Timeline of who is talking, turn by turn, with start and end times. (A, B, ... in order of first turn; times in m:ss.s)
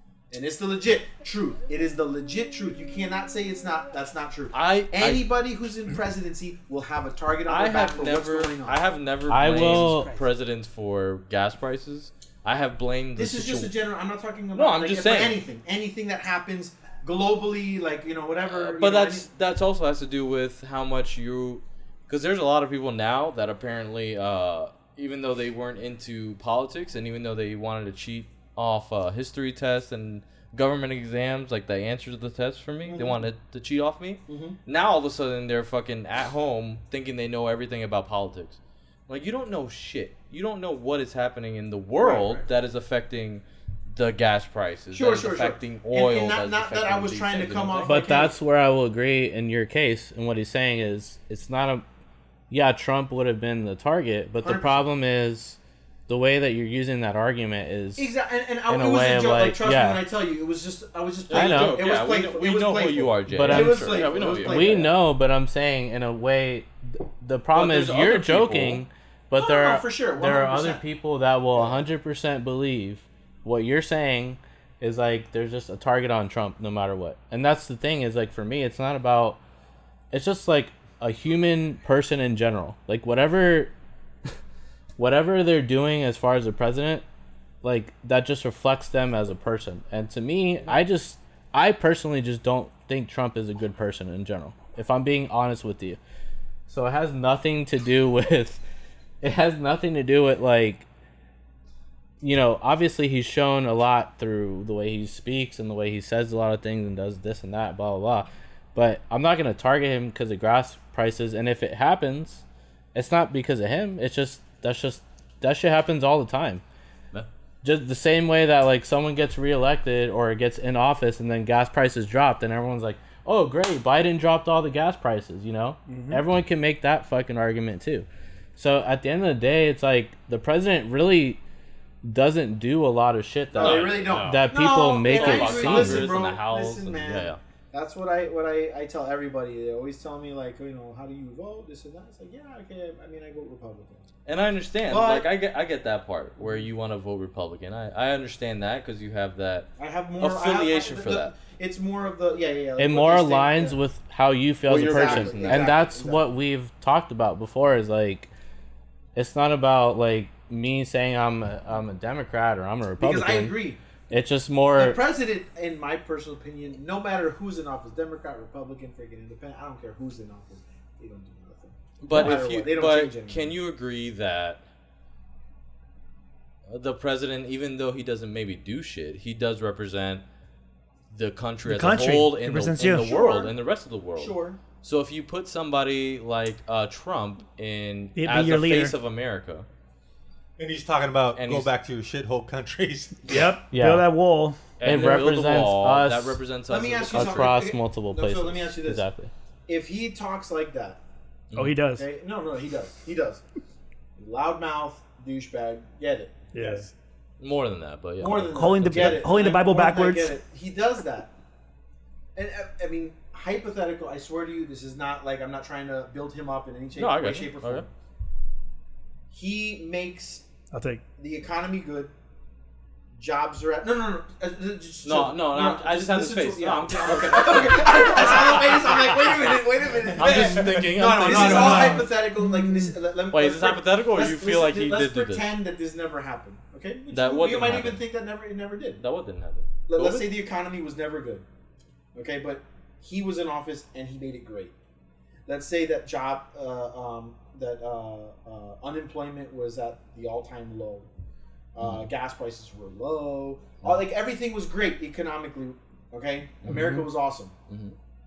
0:00.3-0:08.8 A
0:04.5-0:05.3 B
0:07.5-0:13.7 B
0:09.3-0:10.1 C
0:09.4-0:10.3 D
0:13.2-0:19.3 A
0:14.5-0:15.4 B
0:18.4-0:48.0 B
0:32.8-0:33.3 A
0:34.3-0:34.6 A
0:42.0-0:42.4 A
0:44.9-0:48.3 A
0:47.9-0:51.8 C
0:52.5-0:58.1 C
0:54.4-0:54.9 A
0:58.0-1:04.9 A
0:58.7-1:00.0 C
1:01.3-1:04.9 B
1:01.3-1:01.8 C
1:03.3-1:19.4 C
1:07.5-1:08.8 B
1:09.4-1:10.8 A
1:11.5-1:11.8 A
1:20.1-1:23.7 C
1:25.0-1:27.0 C
1:27.6-1:36.0 C
1:36.7-1:38.6 C
1:39.2-1:40.8 C
1:42.2-1:56.6 C
1:57.6-2:11.4 C
2:05.9-2:06.2 D
2:12.0-2:16.1 C
2:13.5-2:14.4 B
2:13.5-2:24.0 A
2:15.0-2:17.4 B
2:24.2-2:29.7 B
2:24.8-2:25.3 A
2:29.8-2:33.8 A
2:30.2-2:31.3 B
2:32.8-2:38.3 C
2:34.7-2:36.2 A
2:34.7-2:35.8 B
2:39.1-2:45.0 C
2:43.0-2:43.8 A
2:44.8-2:53.6 A
2:52.0-2:54.6 B
2:56.7-3:00.2 B
3:01.1-3:09.6 B
3:01.6-3:03.1 D
3:03.0-3:03.5 A
3:04.2-3:04.6 A
3:08.2-3:09.0 D
3:10.6-3:13.4 E
3:11.3-3:11.7 B
3:13.2-3:14.6 D
3:13.7-3:14.1 C
3:14.8-3:17.6 B
3:14.8-3:16.4 C
3:16.7-3:19.0 A
3:17.1-3:19.3 C
3:19.7-3:21.0 A
3:21.5-3:21.8 B
3:21.6-3:22.0 D
3:21.9-3:23.4 A
3:24.2-3:26.4 A
3:26.5-3:26.9 D
3:26.6-3:26.9 E
3:27.4-3:29.2 B
3:28.2-3:31.3 A
3:28.5-3:30.3 D
3:32.3-3:37.9 A
3:37.0-3:37.8 B
3:39.3-3:40.4 A
3:40.7-3:41.0 D
3:41.2-3:42.1 A
3:43.1-3:59.0 A
3:45.0-3:48.9 B
3:50.1-3:50.9 E
3:50.1-3:52.0 B
3:51.3-3:52.9 D
3:51.5-3:51.8 E
3:53.3-3:55.5 B
3:57.1-3:58.0 B
3:59.0-4:00.3 B
3:59.9-4:01.4 A
4:02.1-4:04.7 A
4:05.4-4:11.1 A
4:11.7-4:17.5 A
4:11.8-4:12.0 B
4:16.6-4:16.9 B
4:16.7-4:17.0 D
4:17.7-4:17.9 B